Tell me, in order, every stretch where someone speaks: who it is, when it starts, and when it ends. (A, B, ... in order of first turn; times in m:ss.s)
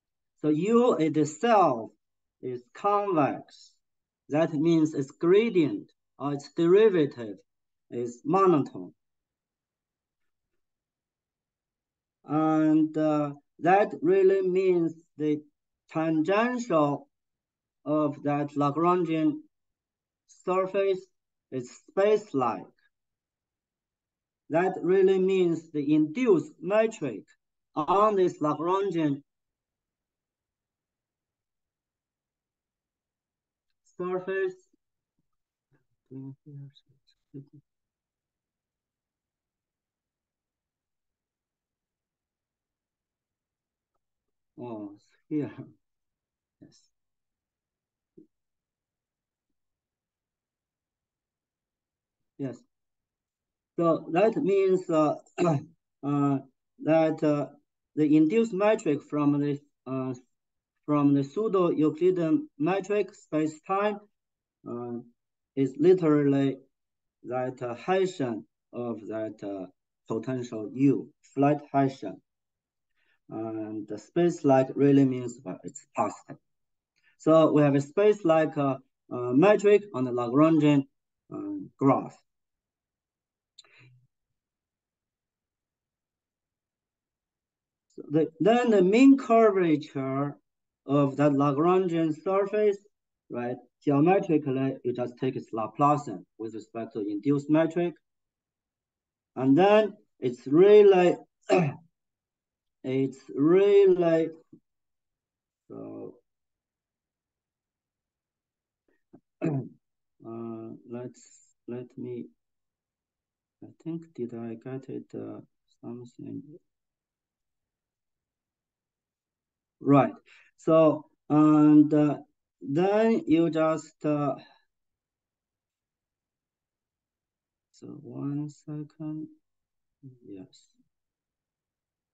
0:00.4-0:03.8 A
0:04.3-0:08.9 A
0:12.2-0:17.1 A
0:17.8-0:19.4 A
0:20.3-0:22.7 A
0:24.5-0:29.2 A
0:33.8-0:34.6 A
0:36.1-0:37.6 A
0:44.6-0:45.6 A
0:46.6-0:46.9 A
0:52.4-0:52.6 A
0:53.8-1:00.2 A
1:00.9-1:04.0 A
1:04.6-1:06.6 A
1:07.2-1:12.2 A
1:13.3-1:16.4 A
1:17.2-1:22.2 A
1:28.0-1:38.0 A
1:39.4-1:41.8 A
1:42.8-1:44.3 A
1:45.7-1:46.2 A
1:49.4-1:49.7 A
1:50.2-1:52.3 A
1:53.6-1:56.6 A
1:59.8-2:04.4 A
2:07.7-2:09.3 A
2:10.2-2:10.7 A